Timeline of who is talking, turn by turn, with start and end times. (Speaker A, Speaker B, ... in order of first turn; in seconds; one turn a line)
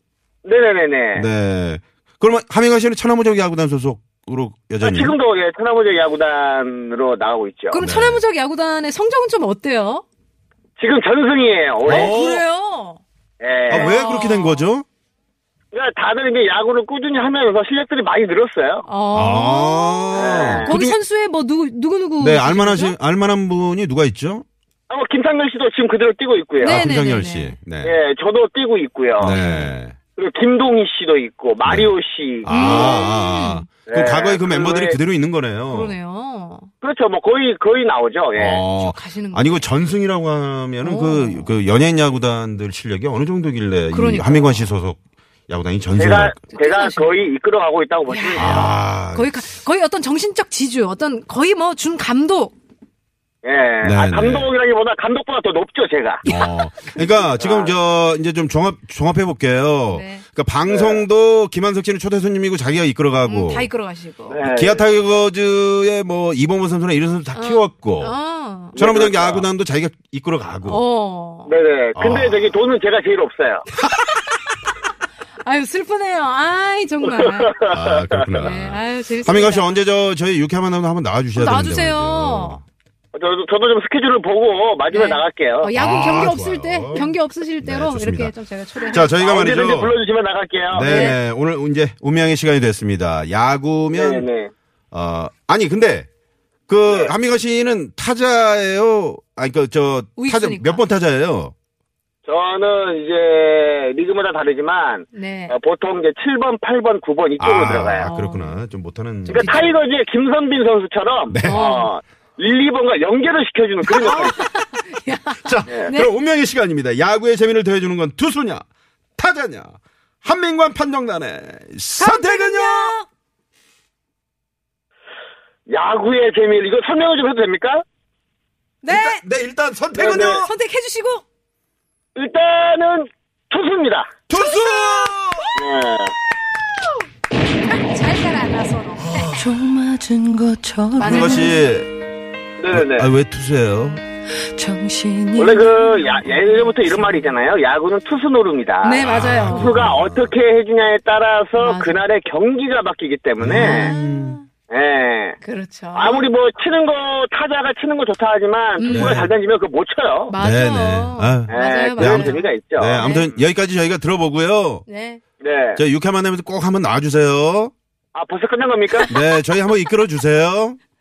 Speaker A: 0.5-1.3
Speaker B: 1.1-5.2
Speaker A: 4.8-7.8
Speaker C: 7.7-10.1
Speaker B: 7.8-8.2
Speaker A: 10.8-12.2
Speaker B: 11.8-12.4
Speaker C: 11.8-13.0
Speaker A: 13.4-13.9
Speaker B: 13.7-14.9
Speaker C: 13.7-14.7
Speaker A: 15.7-18.9
Speaker C: 18.9-23.0
Speaker B: 19.1-21.0
Speaker A: 20.1-20.7
Speaker B: 22.2-24.4
Speaker A: 24.9-26.8
Speaker C: 26.6-27.6
Speaker B: 26.6-27.9
Speaker A: 27.8-29.4
Speaker B: 29.2-30.0
Speaker C: 29.3-29.8
Speaker A: 30.2-33.1
Speaker B: 31.6-36.0
Speaker C: 32.5-33.7
Speaker A: 33.9-35.0
Speaker C: 35.7-36.7
Speaker A: 36.8-38.6
Speaker B: 38.4-46.4
Speaker C: 38.7-39.7
Speaker C: 40.8-41.5
Speaker C: 43.9-44.7
Speaker A: 46.0-48.7
Speaker C: 46.5-47.2
Speaker C: 48.1-52.5
Speaker B: 48.4-49.4
Speaker A: 53.4-56.2
Speaker B: 53.8-54.5
Speaker C: 56.2-57.1
Speaker B: 56.2-63.7
Speaker A: 57.4-57.8
Speaker C: 59.9-60.2
Speaker A: 60.7-61.0
Speaker C: 63.2-64.4
Speaker A: 64.3-64.8
Speaker B: 64.4-68.2
Speaker C: 67.3-68.8
Speaker B: 68.8-70.8
Speaker A: 68.8-69.5
Speaker C: 70.7-71.5
Speaker A: 71.5-73.7
Speaker B: 72.0-72.6
Speaker C: 73.8-74.4
Speaker C: 75.4-77.6
Speaker A: 77.0-77.8
Speaker B: 77.7-82.6
Speaker C: 78.3-79.8
Speaker C: 81.3-82.6
Speaker A: 83.1-85.7
Speaker C: 84.9-89.2
Speaker B: 85.7-90.0
Speaker A: 89.2-91.2
Speaker B: 90.7-94.3
Speaker C: 90.8-91.2
Speaker A: 93.9-94.5
Speaker B: 94.9-96.1
Speaker B: 96.7-101.5
Speaker C: 100.2-100.8
Speaker A: 102.3-108.1
Speaker C: 105.1-105.5
Speaker B: 107.4-109.8
Speaker C: 108.0-108.6
Speaker C: 109.2-109.7
Speaker A: 109.3-114.4
Speaker B: 111.3-111.7
Speaker C: 111.4-111.9
Speaker C: 113.8-116.1
Speaker B: 115.4-118.6
Speaker A: 115.7-115.9
Speaker B: 119.2-123.0
Speaker C: 122.0-123.1
Speaker A: 125.7-127.8
Speaker C: 128.8-129.3
Speaker B: 128.9-130.5
Speaker A: 129.9-130.4
Speaker C: 130.0-131.2
Speaker A: 132.2-134.1
Speaker B: 134.3-135.6
Speaker C: 134.3-135.2
Speaker A: 135.6-136.1
Speaker C: 137.7-139.3
Speaker B: 139.0-139.6
Speaker D: 139.4-141.6
Speaker C: 141.0-141.6
Speaker B: 141.0-141.9
Speaker A: 142.6-143.1
Speaker B: 142.7-144.0
Speaker D: 144.6-146.1
Speaker A: 145.4-154.0
Speaker C: 148.8-149.8
Speaker B: 149.0-150.3
Speaker C: 151.6-152.0
Speaker B: 153.4-154.4
Speaker C: 153.5-154.4
Speaker A: 154.7-155.4
Speaker C: 155.4-156.3
Speaker A: 155.9-160.3
Speaker C: 158.8-159.3
Speaker B: 158.8-159.3
Speaker C: 160.3-163.3
Speaker B: 160.4-164.8
Speaker A: 161.5-163.4
Speaker C: 164.9-165.2
Speaker A: 165.4-165.8
Speaker B: 165.8-167.7
Speaker A: 168.1-169.1
Speaker B: 169.1-170.8